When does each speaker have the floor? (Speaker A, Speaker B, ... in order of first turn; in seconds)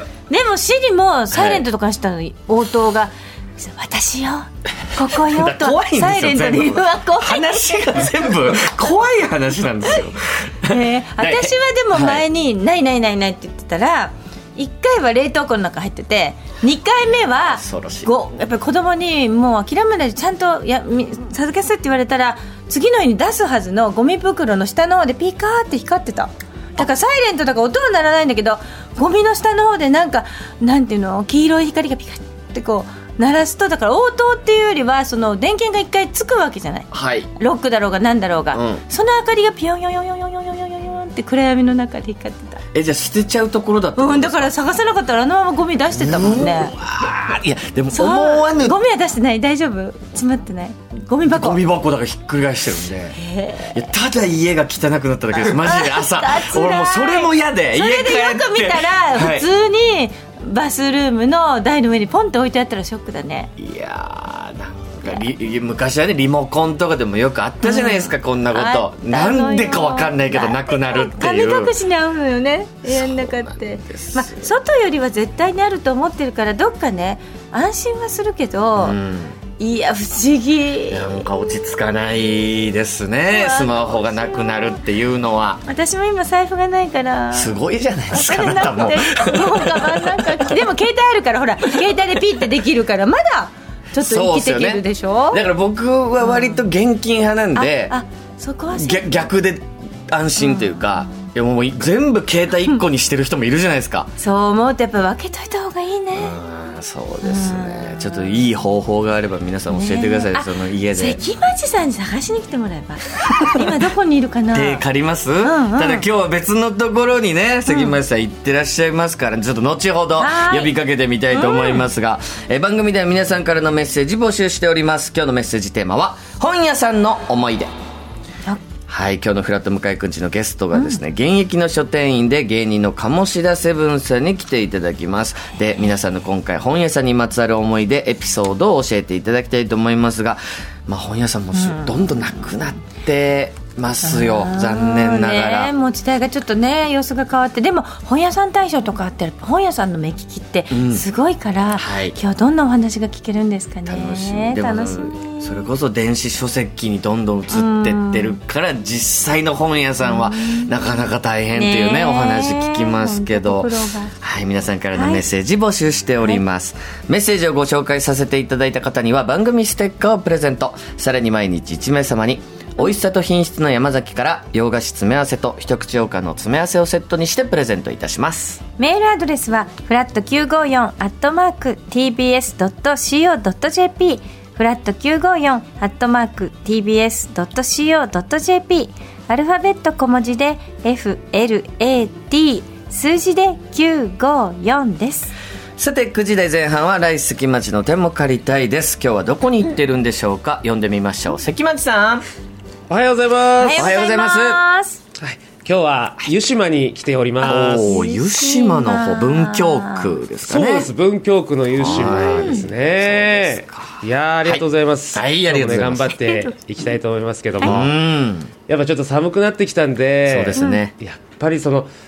Speaker A: 0.3-7.6, 10.7-42.6, 44.0-46.7, 47.9-51.6, 53.1-53.8, 55.4-63.5, 67.6-79.0, 79.6-81.2, 83.3-84.6, 85.7-87.5, 88.1-95.4, 96.2-96.6, 97.5-99.3, 100.4-100.9, 104.2-106.4, 107.2-108.5, 109.7-114.8, 115.4-116.1, 117.7-118.0, 120.2-120.7, 121.3-121.8, 141.5-142.3, 144.0-155.7, 157.5-158.3, 160.0-160.8, 161.5-164.1, 164.9-165.2, 178.8-195.3, 203.6-205.0, 207.4-210.1, 212.2-212.6, 220.6-220.8
Speaker B: 1.3-1.6, 5.2-12.2, 17.4-18.1, 36.9-37.3, 38.5-38.8, 42.7-44.5, 45.9-48.8, 51.2-53.2, 53.7-59.5, 63.6-71.7, 72.8-74.5, 78.8-79.4, 80.9-85.6, 87.3-90.6, 94.0-97.9, 98.7-104.1, 106.1-111.2, 113.2-113.6, 114.5-127.7, 128.9-145.7, 150.7-151.0, 151.8-152.2, 153.9-178.6, 195.8-202.2, 203.8-204.6, 207.4-210.9, 211.8-216.2, 217.6-218.5, 220.3-220.9
Speaker C: 202.9-203.9, 205.2-208.0, 210.4-217.9, 218.7-221.9